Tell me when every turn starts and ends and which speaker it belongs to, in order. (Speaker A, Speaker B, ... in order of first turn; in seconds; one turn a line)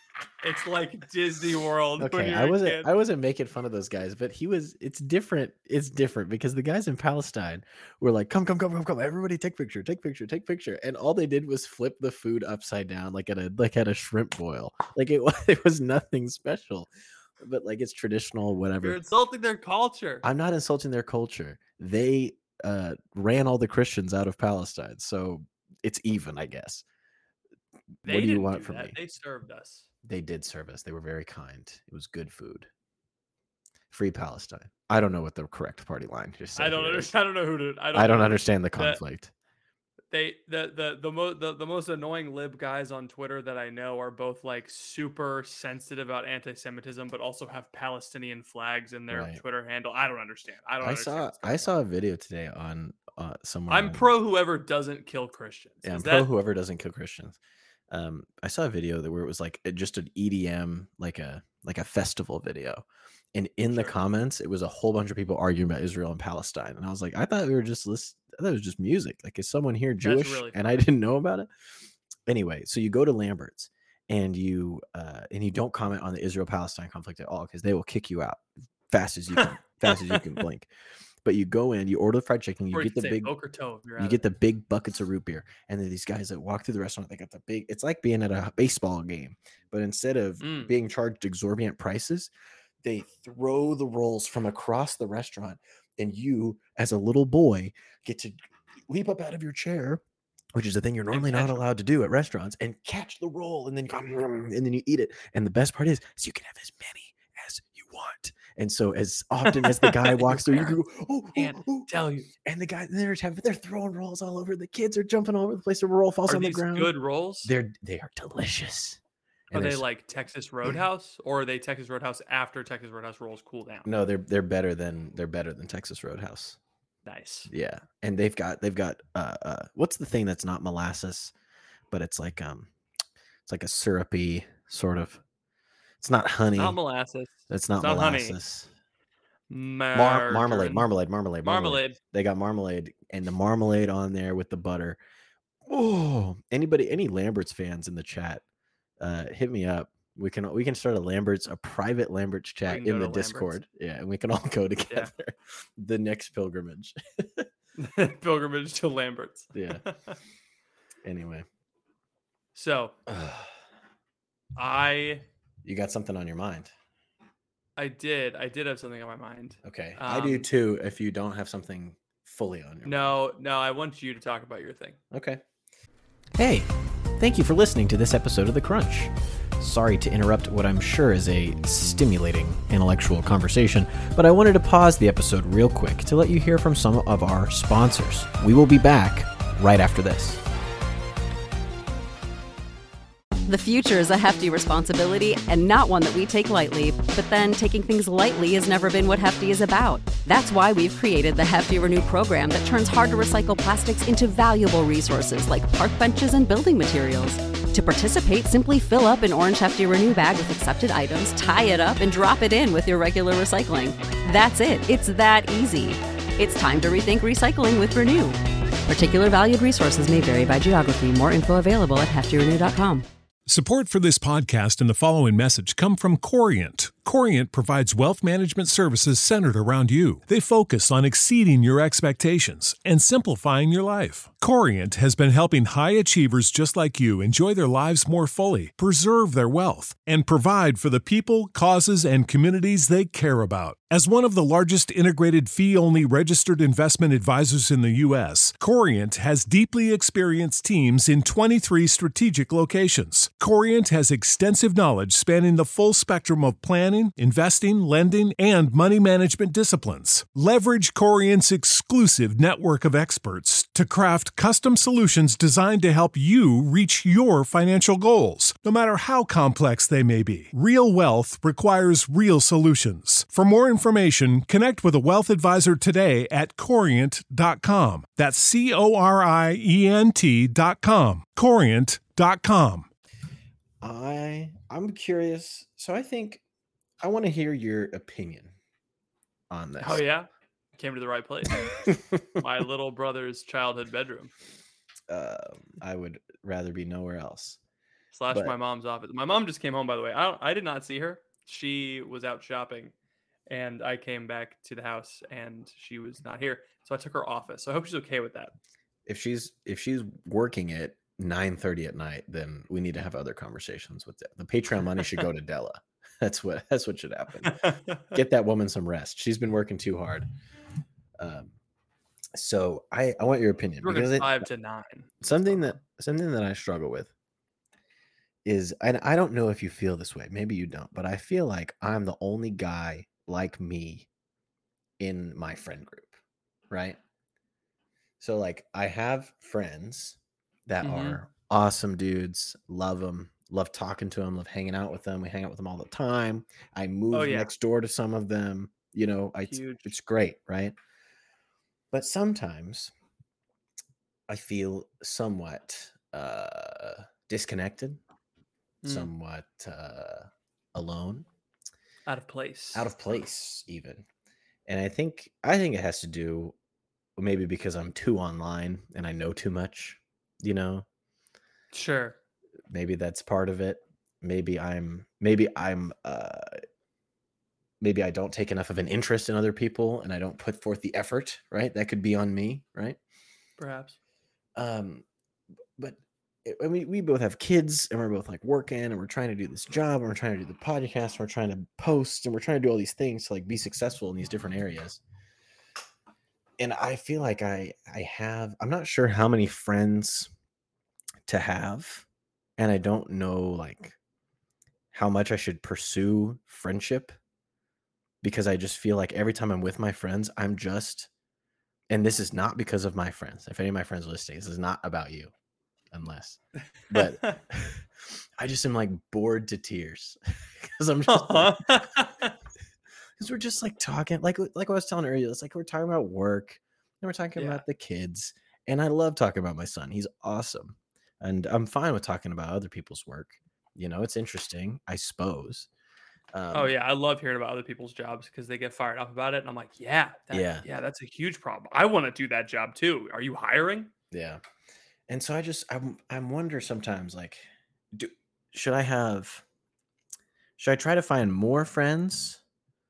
Speaker A: 0.4-2.9
Speaker B: 2.0-16.9
Speaker B: 17.4-19.0
Speaker A: 18.8-20.2
Speaker B: 20.2-26.8
Speaker B: 28.0-29.0
Speaker A: 28.1-29.9
Speaker B: 30.0-32.7
Speaker B: 33.9-37.1
Speaker A: 36.6-39.0
Speaker B: 37.9-39.3
Speaker A: 40.1-51.7
Speaker B: 49.1-49.4
Speaker B: 50.8-54.1
Speaker A: 53.7-56.3
Speaker B: 55.8-57.4
Speaker B: 57.9-71.5
Speaker A: 63.7-64.0
Speaker A: 70.0-70.9
Speaker B: 72.3-80.7
Speaker A: 79.9-80.2
Speaker B: 81.2-83.3
Speaker A: 82.7-84.2
Speaker B: 84.0-92.3
Speaker A: 90.4-90.7
Speaker B: 92.8-100.0
Speaker B: 100.5-111.9
Speaker A: 101.1-101.6
Speaker A: 109.5-110.8
Speaker A: 111.3-112.3
Speaker B: 112.4-116.9
Speaker A: 116.3-117.5
Speaker B: 117.4-119.0
Speaker B: 119.5-119.8
Speaker A: 119.5-123.9
Speaker B: 123.8-126.6
Speaker A: 127.1-127.5
Speaker B: 127.5-131.3
Speaker B: 131.9-132.7
Speaker B: 133.5-135.2
Speaker B: 136.0-136.8
Speaker A: 136.6-138.4
Speaker B: 137.5-138.7
Speaker A: 139.5-140.9
Speaker B: 139.9-145.0
Speaker A: 141.4-142.0
Speaker B: 145.7-148.4
Speaker B: 149.0-157.5
Speaker A: 152.7-153.6
Speaker A: 157.8-160.2
Speaker B: 159.5-159.8
Speaker B: 161.0-161.5
Speaker A: 162.6-162.9
Speaker B: 163.1-163.5
Speaker A: 164.6-165.2
Speaker B: 165.6-166.7
Speaker A: 167.8-170.5
Speaker B: 169.6-173.0
Speaker A: 172.8-175.0
Speaker B: 175.1-175.4
Speaker B: 176.4-190.4
Speaker C: 193.5-218.4
Speaker C: 218.9-223.1
Speaker D: 223.5-282.9
Speaker B: 283.8-286.4
Speaker B: 287.0-288.5
Speaker B: 289.5-290.0
Speaker A: 289.8-291.7
Speaker B: 291.8-292.2
Speaker A: 292.4-294.3
Speaker B: 295.1-297.6
Speaker A: 298.1-302.9
Speaker A: 303.5-308.5
Speaker B: 309.1-320.3
Speaker A: 317.5-318.0
Speaker B: 321.2-321.5
Speaker B: 322.4-324.4
Speaker A: 323.8-325.8
Speaker B: 325.2-327.1
Speaker B: 328.4-334.1
Speaker B: 335.0-336.2
Speaker B: 336.7-337.0
Speaker B: 338.2-350.7
Speaker A: 340.8-341.2
Speaker A: 347.1-347.5
Speaker A: 349.5-349.9
Speaker B: 351.9-352.9
Speaker B: 354.3-358.0
Speaker A: 358.8-359.1
Speaker B: 358.9-361.3
Speaker A: 362.1-362.9
Speaker B: 362.7-364.1
Speaker B: 364.7-366.5
Speaker B: 367.2-370.9
Speaker A: 371.7-372.2
Speaker B: 372.7-376.6
Speaker B: 377.8-383.0
Speaker A: 383.6-384.0
Speaker B: 384.6-385.0
Speaker B: 385.8-395.0
Speaker B: 396.6-400.3
Speaker B: 401.3-402.1
Speaker B: 402.6-403.9
Speaker B: 404.9-407.1
Speaker B: 408.2-411.1
Speaker B: 411.9-415.3
Speaker B: 415.9-421.8
Speaker A: 416.9-417.4
Speaker A: 421.1-422.3
Speaker B: 423.2-435.7
Speaker A: 427.4-427.6
Speaker B: 436.3-436.7
Speaker A: 436.5-443.9
Speaker B: 440.3-440.6
Speaker B: 444.1-444.4
Speaker B: 445.1-449.4
Speaker B: 450.6-452.4